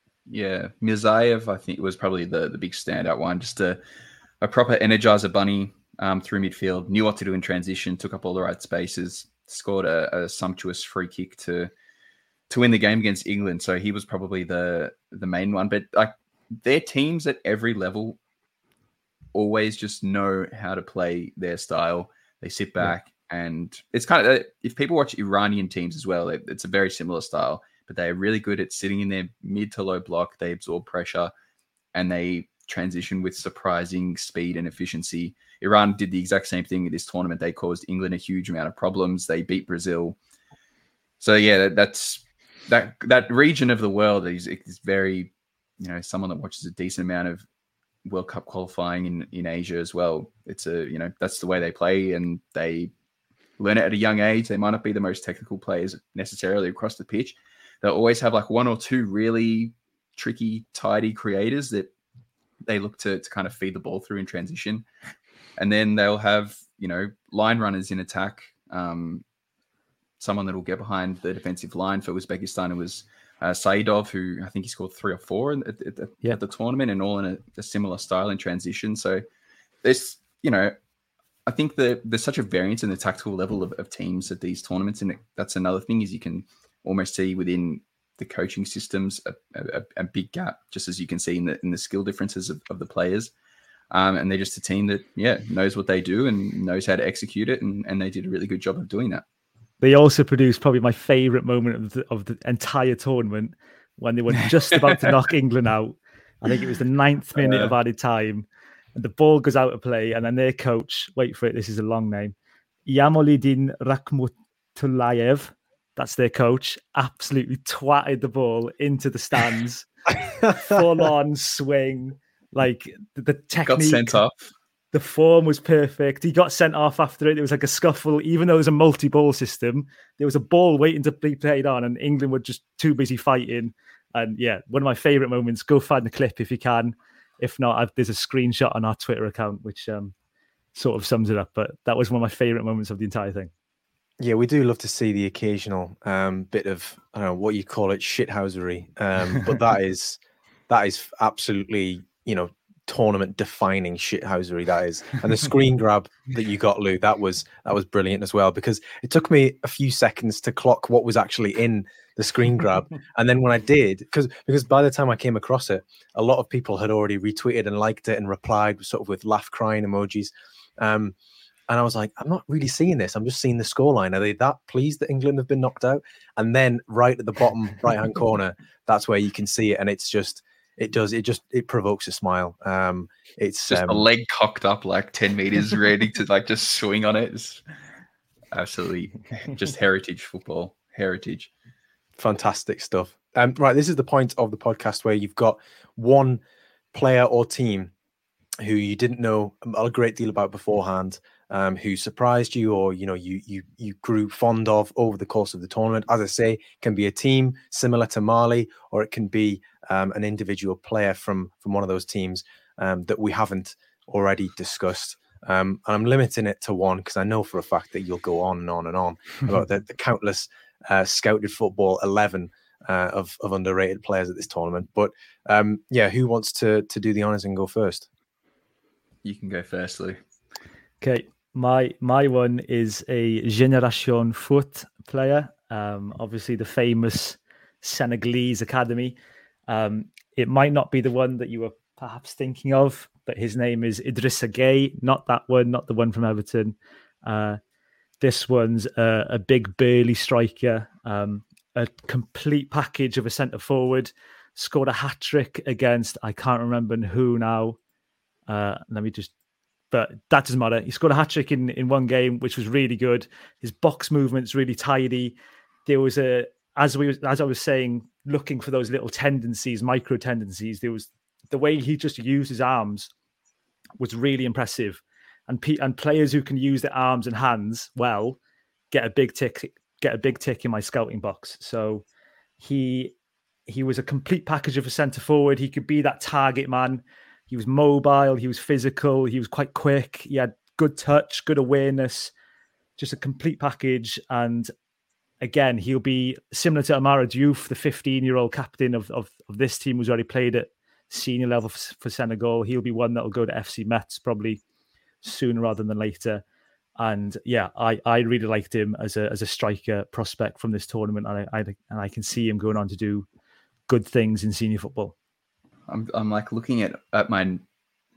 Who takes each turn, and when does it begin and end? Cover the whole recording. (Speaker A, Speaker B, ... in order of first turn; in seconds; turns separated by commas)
Speaker A: 0.3-3.8, Speaker A: 4.4-11.7, Speaker A: 12.5-18.2, Speaker A: 19.3-31.3, Speaker A: 31.9-40.2, Speaker A: 41.2-47.4, Speaker A: 48.0-52.9, Speaker A: 53.6-61.9, Speaker A: 62.6-64.8, Speaker A: 65.6-69.2, Speaker A: 70.2-79.2, Speaker A: 79.8-80.7, Speaker A: 81.5-93.3, Speaker A: 93.9-99.2, Speaker B: 99.8-112.3, Speaker A: 104.7-105.1, Speaker A: 107.3-107.7, Speaker B: 112.8-124.2, Speaker A: 123.6-124.4, Speaker B: 124.9-140.1, Speaker B: 140.7-143.5, Speaker C: 144.2-171.1, Speaker C: 171.7-184.0, Speaker A: 183.7-187.6, Speaker A: 188.5-191.5, Speaker C: 192.2-196.4, Speaker C: 196.9-197.9, Speaker C: 198.6-228.1, Speaker A: 229.2-230.2, Speaker B: 231.0-239.2, Speaker B: 239.7-247.6, Speaker B: 248.2-257.8, Speaker B: 258.5-259.3, Speaker B: 259.9-273.1, Speaker B: 274.0-278.4, Speaker B: 278.9-282.0, Speaker B: 282.6-283.1, Speaker B: 283.7-292.3, Speaker B: 293.0-294.7, Speaker B: 295.4-304.6, Speaker B: 305.2-306.4, Speaker B: 307.0-313.3, Speaker B: 313.9-315.1, Speaker A: 315.9-317.6